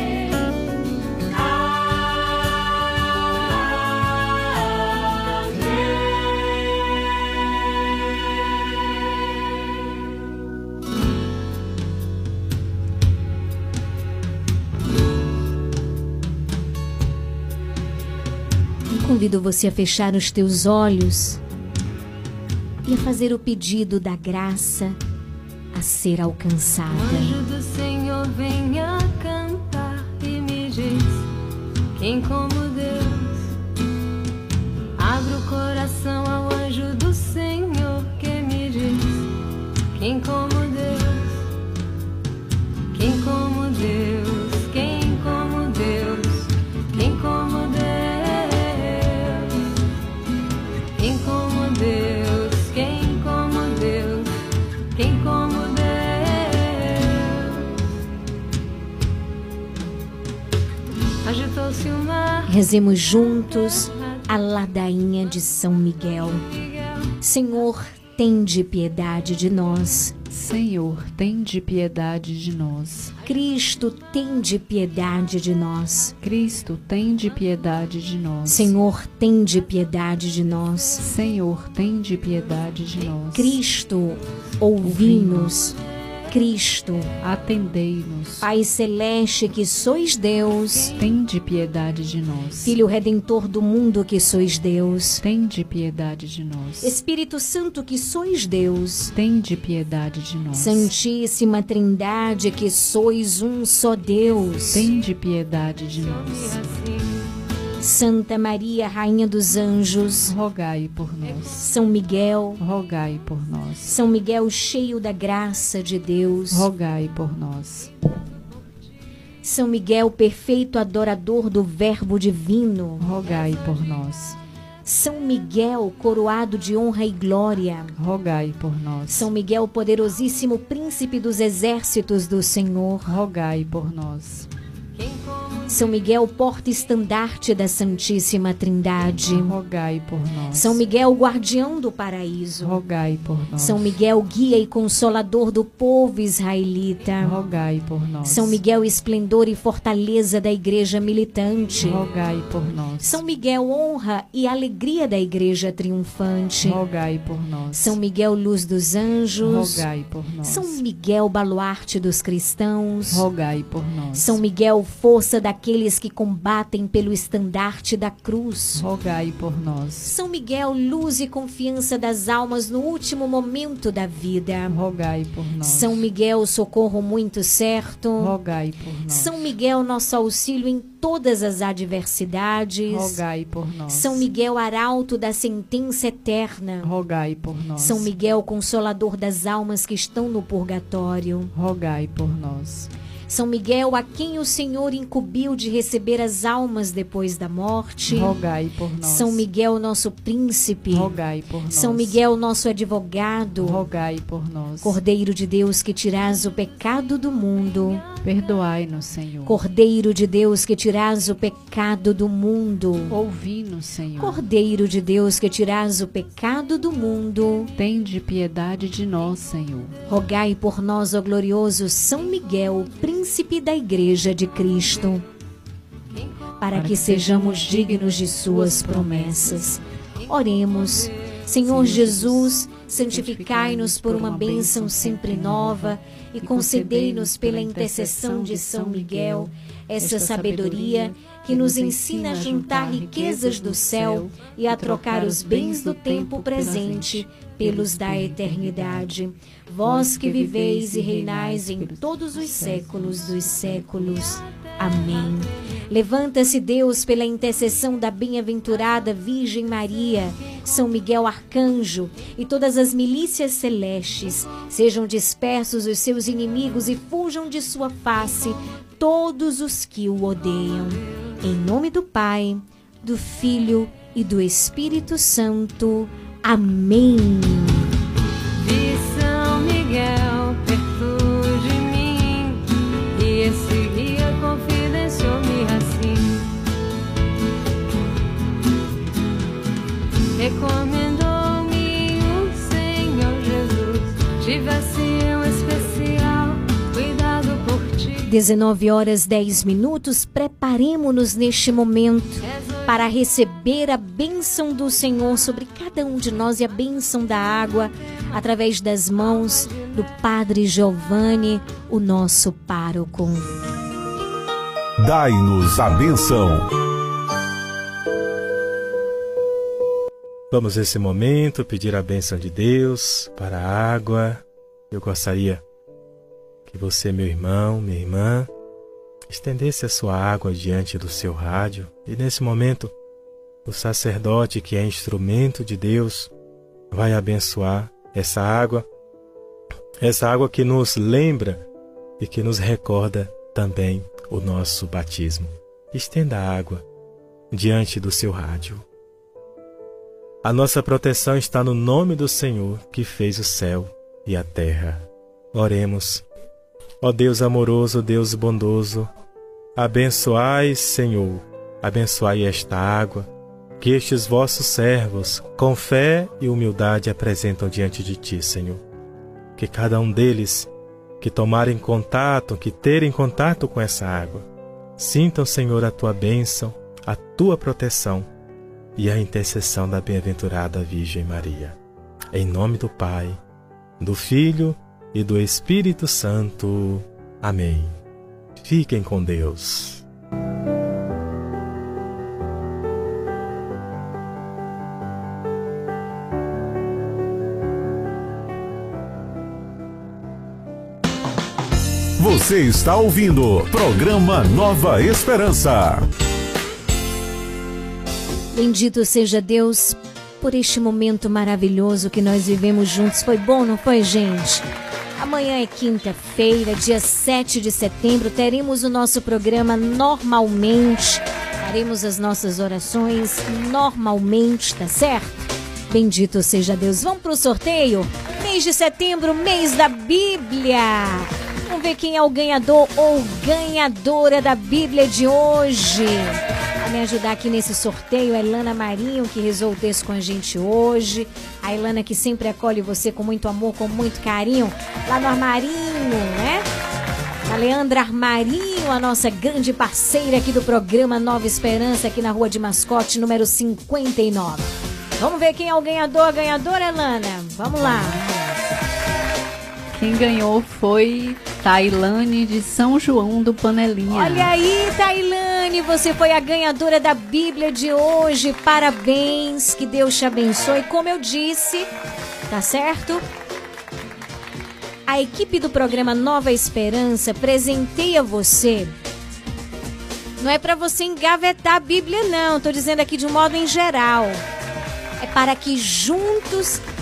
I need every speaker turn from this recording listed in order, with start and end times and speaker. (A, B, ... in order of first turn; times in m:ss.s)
0:18.9-0:21.4 A
0:22.8-0:25.0 A
0:25.7-0:27.4 A
0:26.9-0:31.2 B
0:32.0-0:33.3 B
0:35.0-0:39.2 B
0:40.0-0:41.3 B
0:42.9-0:49.5 B
0:51.0-0:54.3 B
0:54.9-0:57.4 B
1:01.2-1:02.5 B
1:02.4-1:06.4 A
1:07.2-1:10.1 A
1:10.3-1:13.1 C
1:13.2-1:16.1 A
1:16.2-1:18.7 C
1:18.4-1:21.0 A
1:21.0-1:23.6 C
1:23.3-1:25.8 A
1:24.8-1:25.5 C
1:26.3-1:27.1 A
1:27.2-1:28.5 C
1:28.4-1:30.9 A
1:30.9-1:32.8 C
1:32.6-1:35.2 A
1:35.2-1:36.9 C
1:36.8-1:39.1 A
1:39.1-1:40.9 C
1:40.5-1:44.9 A
1:44.7-1:46.6 C
1:46.0-1:47.3 B
1:47.8-1:50.3 A
1:50.2-1:51.7 C
1:51.6-1:52.6 A
1:52.6-1:53.9 C
1:53.8-1:56.7 A
1:56.5-1:57.9 C
1:59.4-2:03.1 A
2:03.0-2:04.4 C
2:04.8-2:07.9 A
2:08.0-2:09.3 C
2:09.1-2:13.1 A
2:13.0-2:14.5 C
2:15.0-2:15.7 B
2:15.7-2:19.5 A
2:19.3-2:20.8 C
2:20.5-2:22.8 A
2:22.6-2:24.0 C
2:23.6-2:27.4 A
2:27.2-2:28.6 C
2:28.2-2:32.0 A
2:31.8-2:33.2 C
2:33.0-2:36.8 A
2:36.6-2:38.0 C
2:37.7-2:39.8 A
2:39.4-2:40.8 C
2:40.4-2:43.2 A
2:43.1-2:44.4 C
2:44.1-2:48.8 A
2:48.8-2:50.1 C
2:50.0-2:54.8 A
2:54.7-2:56.0 C
2:55.6-2:58.3 A
2:58.2-2:59.5 C
2:59.1-3:03.2 A
3:02.9-3:04.3 C
3:03.9-3:06.9 A
3:06.8-3:08.1 C
3:07.8-3:11.5 A
3:11.5-3:12.9 C
3:13.3-3:18.3 A
3:18.0-3:19.4 C
3:19.0-3:21.1 A
3:20.9-3:22.2 C
3:21.7-3:23.8 A
3:23.6-3:25.0 C
3:24.8-3:28.0 A
3:28.2-3:29.6 C
3:29.4-3:33.1 A
3:33.1-3:34.4 C
3:34.2-3:37.7 A
3:37.8-3:39.9 C
3:40.1-3:45.2 A
3:46.6-4:37.9 A
3:46.7-3:49.7 C
3:51.6-4:09.2 C
4:09.8-4:14.2 C
4:38.6-4:46.5 B
4:50.4-4:58.3 B
4:58.2-5:13.5 A
5:02.5-5:02.8 B
5:15.0-5:16.6 D
5:20.5-5:25.6 E
5:26.7-5:28.5 E
5:29.3-5:32.9 E
5:33.6-5:36.3 E
5:36.9-5:38.8 E
5:40.0-5:41.6 E
5:42.2-5:46.8 E
5:47.5-5:48.8 E
5:50.4-5:56.2 E
5:57.0-5:59.1 E
5:59.8-6:03.3 E
6:03.8-6:08.8 E
6:09.6-6:10.7 E
6:11.2-6:14.4 E
6:15.0-6:18.3 E
6:19.0-6:21.8 E
6:22.3-6:23.4 E
6:24.0-6:27.9 E
6:28.6-6:30.0 E
6:42.2-6:46.0 D
6:48.5-6:54.6 A
6:55.2-7:26.6 A
7:27.4-7:38.2 A
7:37.8-7:38.4 C
7:39.9-7:44.5 C
7:44.1-7:51.9 A
7:52.5-7:53.2 A
7:55.1-7:58.9 A
8:00.4-8:04.4 A
8:05.2-8:06.8 A